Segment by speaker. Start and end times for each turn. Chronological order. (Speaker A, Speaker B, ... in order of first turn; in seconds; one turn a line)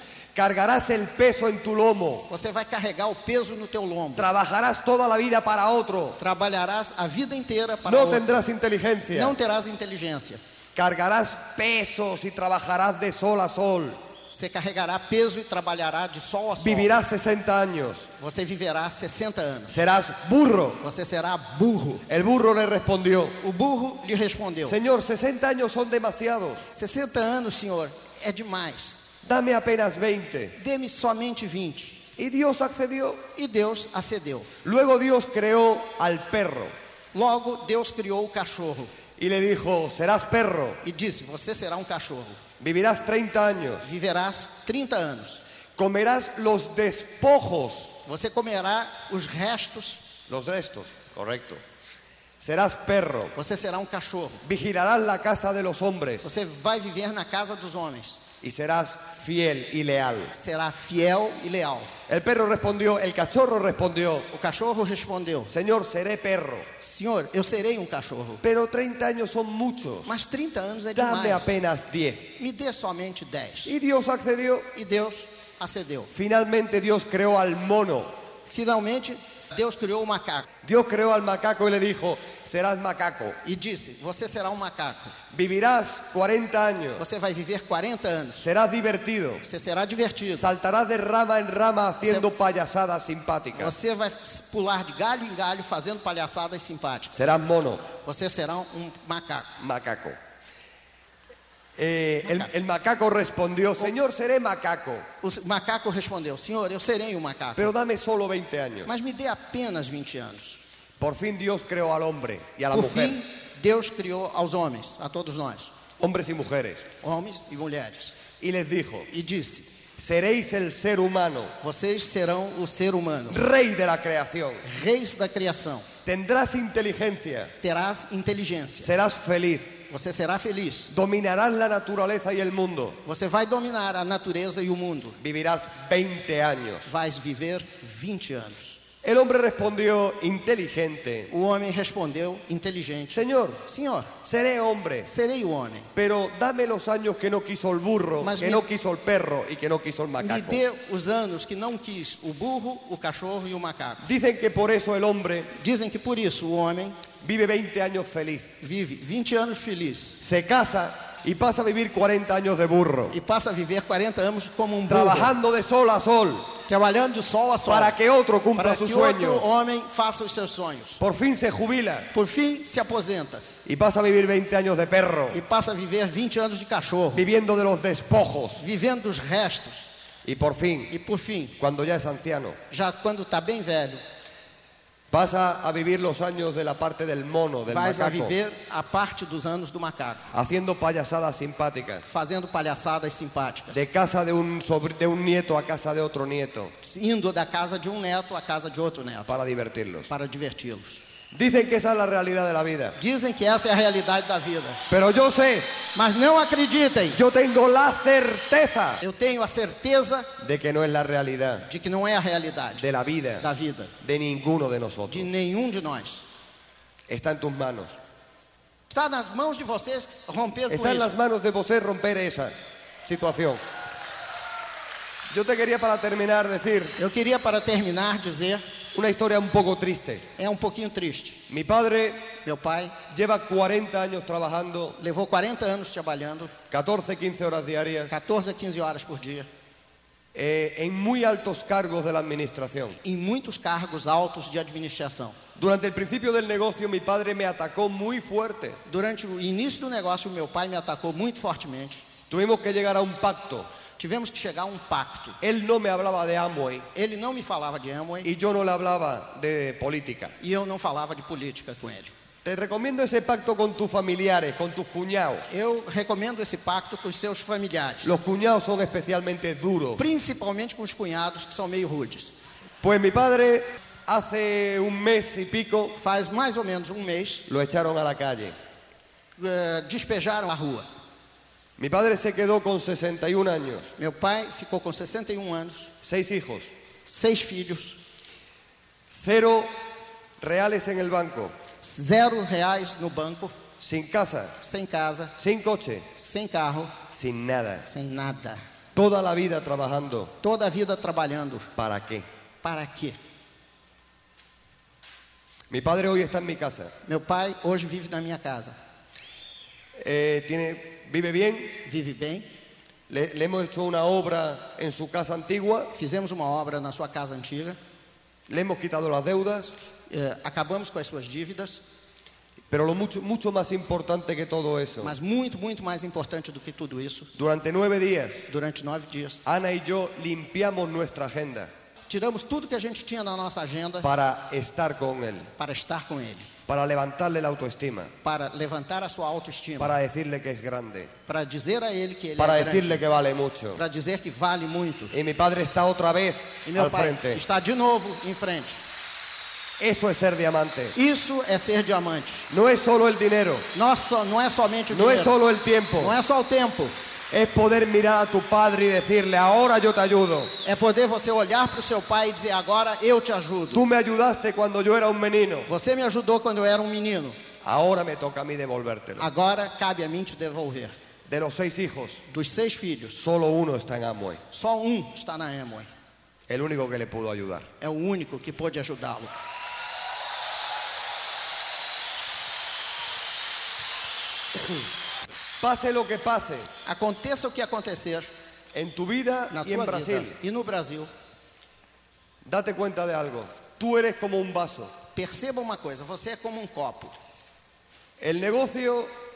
Speaker A: 0.3-2.3
Speaker B: 2.3-4.3
Speaker A: 4.2-6.2
Speaker B: 6.2-8.3
Speaker A: 7.8-9.3
Speaker B: 9.1-10.4
Speaker A: 10.7-14.0
Speaker B: 14.3-16.9
Speaker A: 16.6-18.1
Speaker B: 18.2-19.8
Speaker A: 19.7-20.8
Speaker B: 20.8-22.1
Speaker A: 22.1-23.4
Speaker B: 23.4-24.8
Speaker A: 24.6-26.7
Speaker B: 26.7-29.1
Speaker A: 29.2-30.6
Speaker B: 30.6-32.0
Speaker A: 32.1-33.2
Speaker B: 33.3-34.5
Speaker A: 34.6-36.7
Speaker B: 37.1-38.9
Speaker A: 39.2-40.8
Speaker B: 40.8-42.4
Speaker A: 42.6-43.9
Speaker B: 43.8-45.4
Speaker A: 45.8-48.0
Speaker B: 48.0-50.0
Speaker A: 50.3-51.6
Speaker A: 52.4-53.3
Speaker B: 53.4-54.4
Speaker A: 54.4-56.3
Speaker B: 56.2-58.2
Speaker A: 58.4-60.3
Speaker B: 60.3-61.9
Speaker A: 62.1-64.3
Speaker B: 64.3-65.5
Speaker A: 65.5-66.7
Speaker B: 66.8-68.4
Speaker A: 68.4-70.1
Speaker B: 70.0-71.5
Speaker A: 70.9-72.3
Speaker B: 72.4-73.7
Speaker A: 73.6-74.7
Speaker B: 74.7-76.1
Speaker A: 76.1-78.1
Speaker B: 78.5-80.5
Speaker A: 80.6-83.4
Speaker B: 83.4-85.1
Speaker A: 85.3-87.0
Speaker B: 87.0-88.4
Speaker A: 88.4-89.4
Speaker B: 89.4-90.5
Speaker A: 90.4-93.7
Speaker B: 92.0-92.3
Speaker B: 93.5-97.3
Speaker A: 97.1-97.9
Speaker B: 98.0-99.6
Speaker A: 99.6-100.2
Speaker A: 101.8-105.1
Speaker B: 105.2-107.7
Speaker A: 107.5-108.9
Speaker B: 108.8-110.6
Speaker A: 111.0-113.2
Speaker B: 112.7-115.7
Speaker A: 116.0-116.9
Speaker B: 117.0-118.2
Speaker A: 118.4-119.1
Speaker B: 119.1-119.7
Speaker A: 120.0-121.5
Speaker B: 121.6-123.4
Speaker A: 123.3-124.6
Speaker B: 124.6-125.9
Speaker A: 126.0-127.5
Speaker B: 127.6-128.9
Speaker A: 128.8-129.8
Speaker B: 129.9-130.9
Speaker A: 130.9-133.0
Speaker B: 133.0-135.2
Speaker A: 135.2-136.9
Speaker B: 136.8-138.8
Speaker A: 139.0-141.3
Speaker B: 141.3-144.1
Speaker A: 143.1-143.6
Speaker A: 144.2-145.1
Speaker B: 145.1-145.9
Speaker A: 145.9-150.6
Speaker B: 148.2-148.6
Speaker B: 150.2-154.1
Speaker A: 154.0-155.5
Speaker B: 155.5-157.0
Speaker A: 157.2-158.5
Speaker B: 158.6-160.2
Speaker A: 160.2-163.2
Speaker B: 163.1-165.3
Speaker A: 164.9-166.5
Speaker B: 166.7-167.9
Speaker A: 167.7-169.4
Speaker B: 168.5-171.0
Speaker A: 171.0-172.1
Speaker B: 172.1-173.4
Speaker A: 173.6-175.4
Speaker B: 175.3-177.2
Speaker A: 177.1-178.6
Speaker B: 178.6-179.9
Speaker A: 180.2-180.9
Speaker B: 180.9-181.6
Speaker A: 181.6-182.6
Speaker B: 182.7-184.0
Speaker A: 185.1-188.3
Speaker B: 187.7-190.3
Speaker A: 190.3-192.0
Speaker B: 192.0-193.8
Speaker A: 193.7-196.7
Speaker B: 196.8-199.3
Speaker A: 199.3-200.1
Speaker B: 200.1-201.0
Speaker A: 201.3-203.0
Speaker B: 202.9-204.8
Speaker A: 204.9-205.7
Speaker B: 205.9-207.2
Speaker A: 207.1-209.0
Speaker B: 209.0-210.3
Speaker A: 210.4-211.7
Speaker B: 211.7-212.9
Speaker A: 212.8-213.4
Speaker B: 213.4-213.9
Speaker A: 214.0-215.3
Speaker B: 215.1-216.2
Speaker A: 217.1-218.0
Speaker B: 218.9-221.1
Speaker A: 220.7-223.6
Speaker A: 225.3-226.9
Speaker B: 227.0-228.6
Speaker A: 228.9-230.2
Speaker B: 230.3-231.4
Speaker A: 231.5-232.3
Speaker B: 232.4-232.9
Speaker A: 233.1-235.0
Speaker B: 235.0-236.5
Speaker A: 236.7-238.1
Speaker B: 238.1-239.5
Speaker A: 240.3-243.0
Speaker B: 243.0-245.4
Speaker A: 245.6-248.8
Speaker B: 248.8-252.1
Speaker A: 252.3-253.7
Speaker B: 254.0-255.4
Speaker A: 255.4-256.9
Speaker B: 256.9-258.3
Speaker A: 258.2-260.3
Speaker B: 260.4-262.1
Speaker A: 262.4-265.5
Speaker B: 265.5-268.1
Speaker A: 268.0-270.0
Speaker B: 270.0-272.3
Speaker A: 272.8-275.9
Speaker B: 275.9-277.4
Speaker A: 277.5-278.6
Speaker B: 279.4-280.9
Speaker A: 281.8-283.9
Speaker B: 284.0-285.9
Speaker A: 286.0-286.7
Speaker B: 287.1-288.0
Speaker A: 289.1-289.7
Speaker A: 290.4-291.5
Speaker B: 291.8-293.5
Speaker A: 293.8-294.6
Speaker B: 294.6-295.3
Speaker A: 295.4-296.1
Speaker B: 296.1-297.0
Speaker A: 297.1-297.9
Speaker B: 297.8-298.6
Speaker A: 298.9-300.3
Speaker B: 300.4-301.7
Speaker A: 301.8-302.2
Speaker B: 302.6-303.2
Speaker A: 305.7-306.9
Speaker B: 307.0-308.7
Speaker A: 310.0-311.8
Speaker B: 311.8-312.4
Speaker A: 313.1-315.9
Speaker B: 315.9-317.8
Speaker A: 318.5-319.7
Speaker B: 320.1-321.8
Speaker A: 322.7-325.1
Speaker B: 325.0-327.3
Speaker A: 327.4-328.4
Speaker B: 328.5-329.4
Speaker A: 329.4-331.7
Speaker B: 332.1-334.1
Speaker A: 334.0-335.5
Speaker B: 335.6-336.5
Speaker A: 336.7-338.1
Speaker B: 338.2-339.9
Speaker A: 339.8-341.1
Speaker B: 341.3-343.0
Speaker A: 342.4-343.8
Speaker B: 343.7-345.1
Speaker A: 345.1-347.4
Speaker B: 346.6-348.8
Speaker A: 349.8-350.9
Speaker B: 350.9-352.5
Speaker A: 352.5-353.7
Speaker B: 353.7-355.3
Speaker A: 354.9-356.1
Speaker B: 356.0-356.9
Speaker A: 357.3-360.5
Speaker B: 360.6-363.8
Speaker A: 363.7-365.7
Speaker B: 365.7-367.4
Speaker A: 367.6-369.2
Speaker B: 369.2-370.9
Speaker A: 371.3-372.2
Speaker B: 372.3-373.2
Speaker A: 373.2-374.4
Speaker B: 374.5-375.9
Speaker A: 376.5-377.7
Speaker B: 377.8-379.3
Speaker A: 384.6-384.8
Speaker A: 385.6-386.7
Speaker B: 386.8-388.3
Speaker A: 388.7-390.4
Speaker B: 389.5-391.1
Speaker A: 392.4-394.9
Speaker B: 395.1-397.1
Speaker A: 398.2-399.1